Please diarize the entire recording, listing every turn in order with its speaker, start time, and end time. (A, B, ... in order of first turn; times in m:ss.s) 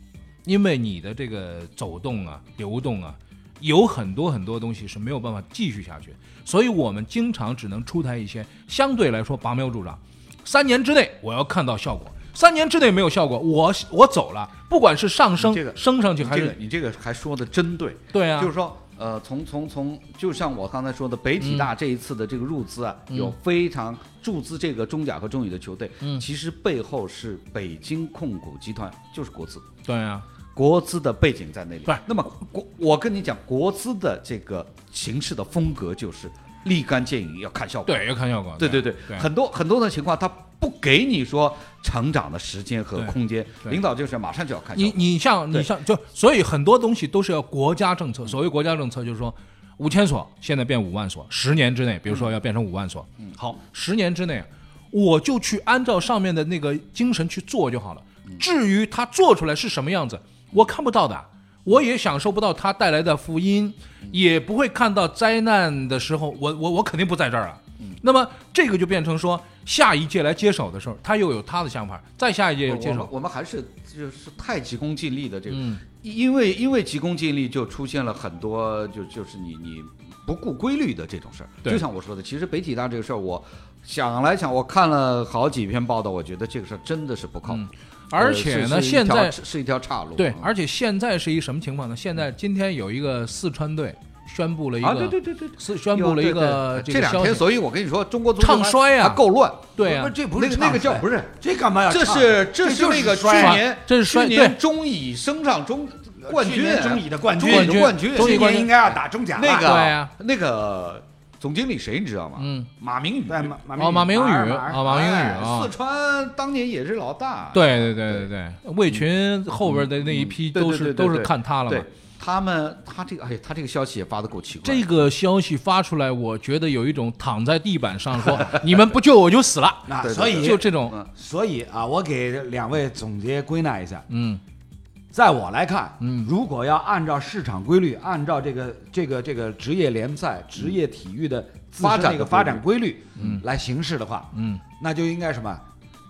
0:00.4-0:16.6 A
0:15.4-0:29.7 B
0:18.1-0:18.5 A
0:21.4-0:21.7 A
0:23.1-0:23.3 A
0:29.8-0:30.2 A
0:30.5-0:38.0 B
0:37.9-0:39.3 A
0:38.6-0:45.7 B
0:44.8-1:13.1 A
1:12.6-1:30.5 B
1:15.5-1:15.8 A
1:27.5-1:29.4 A
1:30.2-1:37.4 A
1:34.8-1:39.7 B
1:38.4-1:39.2 A
1:39.8-1:40.2 A
1:39.8-1:43.6 C
1:40.3-1:41.3 B
1:41.9-1:48.5 B
1:43.3-1:44.6 A
1:46.2-1:49.8 C
1:47.4-1:49.0 A
1:49.4-1:53.5 B
1:49.5-1:50.1 A
1:52.4-1:52.7 A
1:53.3-1:55.1 C
1:53.8-1:55.7 A
1:54.8-1:58.3 B
1:57.5-2:01.9 A
1:59.6-2:04.9 B
2:04.6-2:11.0 A
2:09.9-2:14.0 C
2:10.0-2:11.1 B
2:14.1-2:14.4 A
2:15.1-2:25.6 C
2:16.0-2:16.3 A
2:21.8-2:22.6 B
2:23.2-2:23.4 A
2:24.3-2:24.6 A